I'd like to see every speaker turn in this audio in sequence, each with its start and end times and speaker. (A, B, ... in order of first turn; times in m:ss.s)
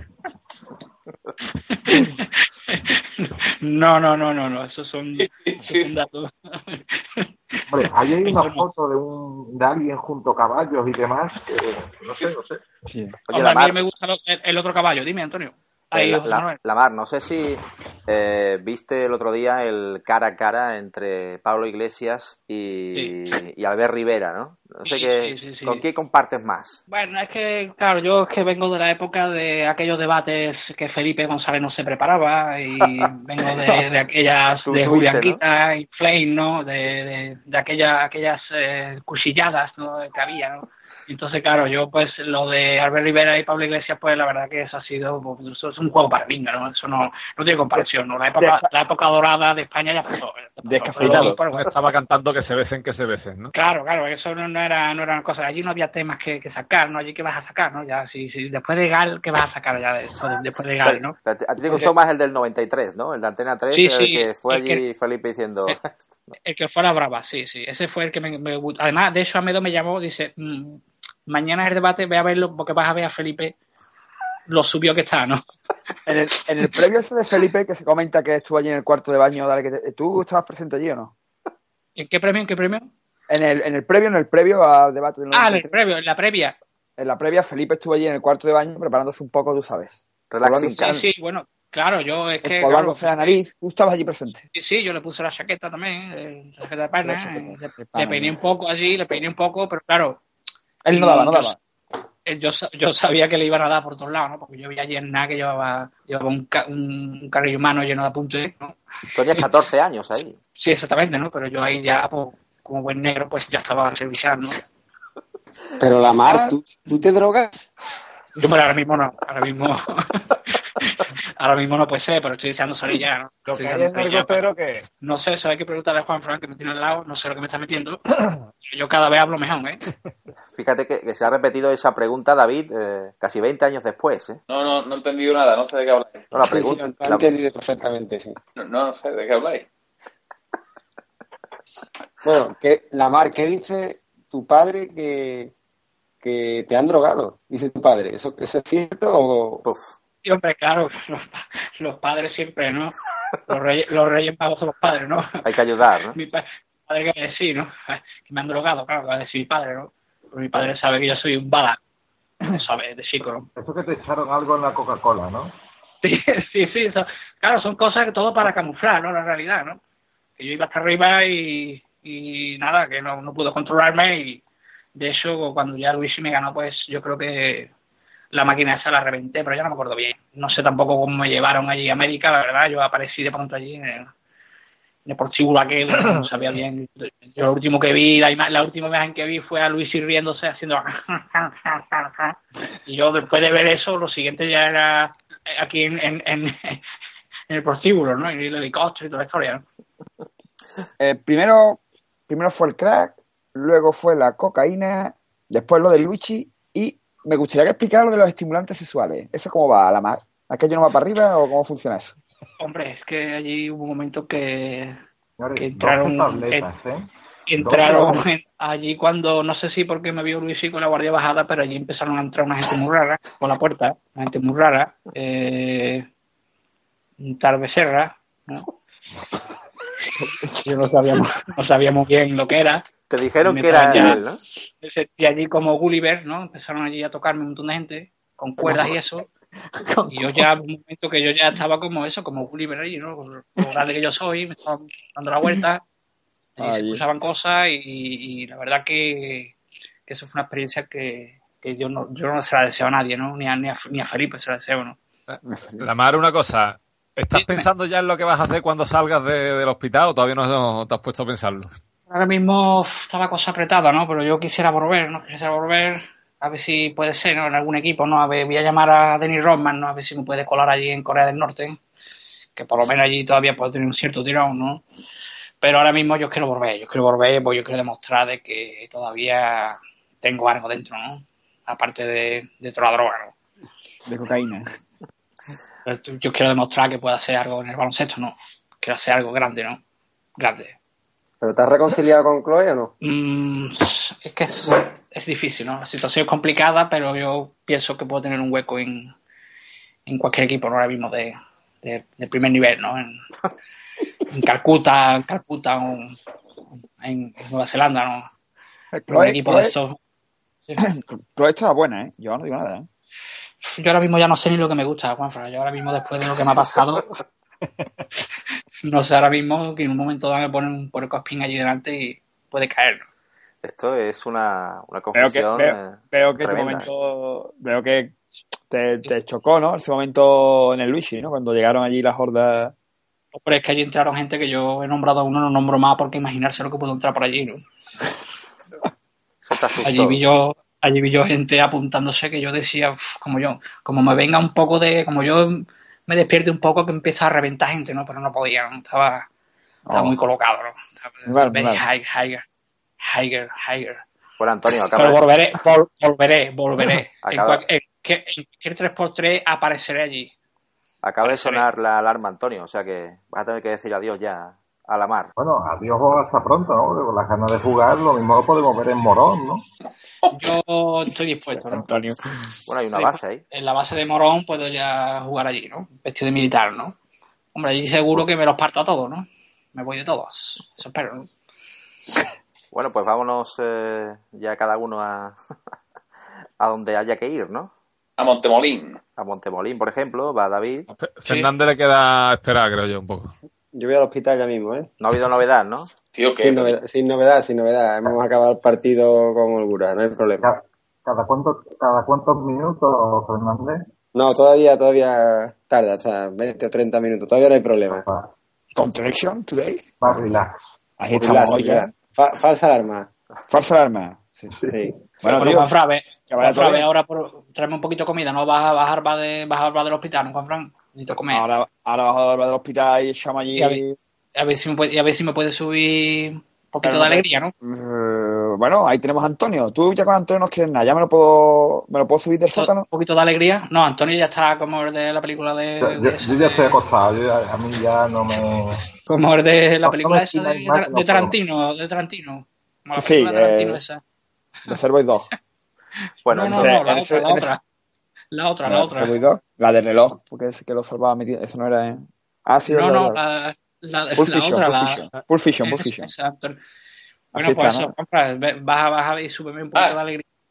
0:01.7-0:08.6 A
0:05.2-0:05.9 B
0:07.7-0:12.6 C
0:12.9-0:13.2 D
0:13.3-0:13.8 E
0:13.3-0:16.6 A
0:15.9-0:26.8 E
0:22.9-0:23.4 A
0:24.8-0:25.8 A
0:26.9-0:51.8 A
0:34.6-0:35.4 E
0:48.4-0:48.7 D
0:50.6-0:51.4 D
0:51.6-0:53.5 F
0:53.5-1:01.2 A
1:00.8-1:06.3 E
1:03.7-1:04.8 A
1:06.4-1:13.6 A
1:14.5-1:15.4 A
1:16.0-1:21.1 D
1:22.0-1:22.9 A
1:23.3-1:25.7 D
1:25.3-1:26.6 A
1:27.0-1:31.0 D
1:30.3-1:31.0 E
1:30.7-1:33.4 A
1:32.4-1:34.4 D
1:34.5-1:40.2 A
1:37.0-1:38.3 D
1:40.8-1:41.6 D
1:40.9-1:41.5 A
1:42.3-1:48.8 A
1:49.1-1:50.4 E
1:50.6-1:54.6 A
1:55.8-1:57.7 G
1:56.3-1:56.6 D
1:58.4-2:04.4 A
2:03.5-2:04.8 D
2:05.0-2:08.0 A
2:08.7-2:09.8 A
2:10.5-2:14.4 E
2:14.5-2:16.3 B
2:16.3-2:17.2 E
2:16.4-2:18.4 G
2:18.6-2:19.7 B
2:22.2-2:25.5 G
2:26.2-2:29.6 G
2:29.6-2:30.0 E
2:30.2-2:32.9 A
2:33.5-2:35.4 A
2:35.4-2:36.2 E
2:36.1-2:41.8 A
2:42.5-2:43.5 A
2:43.5-2:45.5 C
2:46.0-2:49.8 A
2:50.4-2:54.4 A
2:55.0-2:57.7 A
2:58.3-3:04.1 A
3:05.0-3:16.8 A
3:17.5-3:19.6 A
3:21.0-3:32.2 D
3:32.6-3:35.0 A
3:35.4-3:37.1 C
3:35.6-3:36.7 A
3:37.5-3:46.0 A
3:37.6-3:38.2 C
3:37.9-3:38.1 D
3:47.2-3:48.7 A
3:50.2-3:50.7 D
3:50.6-3:52.8 A
3:53.0-3:54.4 E
3:53.4-3:54.2 A
3:53.9-3:54.2 D
3:54.8-3:59.2 A
3:58.6-3:59.0 D
3:59.8-4:00.4 D
4:00.1-4:05.8 A
4:06.6-4:09.5 A
4:06.6-4:07.0 D
4:10.1-4:15.0 A
4:15.3-4:21.7 F
4:15.4-4:15.9 D
4:17.3-4:17.6 A
4:22.1-4:31.8 A
4:32.6-4:34.8 A
4:35.6-4:43.3 A
4:44.0-4:44.6 D
4:45.8-4:49.8 A
4:50.4-4:50.7 A
4:51.4-4:52.9 G
4:53.0-4:59.1 A
5:00.1-5:03.2 A
5:04.3-5:06.1 A
5:07.0-5:08.3 A
5:08.9-5:09.7 D
5:09.1-5:10.0 A
5:10.8-5:12.9 D
5:13.6-5:17.0 A
5:18.9-5:23.0 A
5:23.6-5:26.9 E
5:25.1-5:32.7 D
5:33.3-5:37.6 A
5:39.4-5:40.2 E
5:39.8-5:49.3 A
5:49.9-5:50.1 D
5:49.9-5:52.4 A
5:51.2-5:51.8 D
5:53.0-5:54.0 A
5:54.4-5:55.3 E
5:54.9-6:00.3 A
5:57.2-5:57.6 E
6:01.0-6:05.3 E
6:01.2-6:01.6 A
6:05.4-6:09.6 C
6:10.3-6:11.8 A
6:11.3-6:12.3 D
6:12.7-6:13.4 E
6:12.9-6:17.0 A
6:17.5-6:21.3 A
6:22.7-6:25.4 E
6:26.6-6:27.7 E
6:28.2-6:29.0 B
6:29.2-6:30.9 E
6:31.0-6:33.3 F
6:33.7-6:34.9 G
6:35.0-6:35.9 E
6:36.1-6:36.8 B
6:36.4-6:40.5 G
6:40.4-6:43.8 C
6:44.1-6:48.0 G
6:48.7-6:49.9 D
6:50.0-6:50.6 C
6:51.0-6:51.9 D
6:51.1-6:53.1 G
6:51.1-6:51.6 C
6:53.5-6:54.6 D
6:54.6-6:55.0 G
6:55.2-6:55.7 D
6:55.2-7:01.4 A
6:56.3-6:56.8 D
7:01.3-7:03.9 D
7:03.6-7:03.8 A
7:04.4-7:07.5 A
7:06.8-7:12.9 D
7:12.5-7:16.8 A
7:15.8-7:18.8 C
7:19.0-7:24.0 A
7:19.8-7:21.4 C
7:22.9-7:23.8 D
7:24.7-7:25.3 D
7:26.2-7:26.8 E
7:26.3-7:27.6 A
7:26.5-7:27.5 D
7:28.3-7:29.2 A
7:28.6-7:33.2 D
7:32.6-7:36.6 A
7:34.2-7:36.1 D
7:37.3-7:37.9 D
7:37.3-7:40.2 A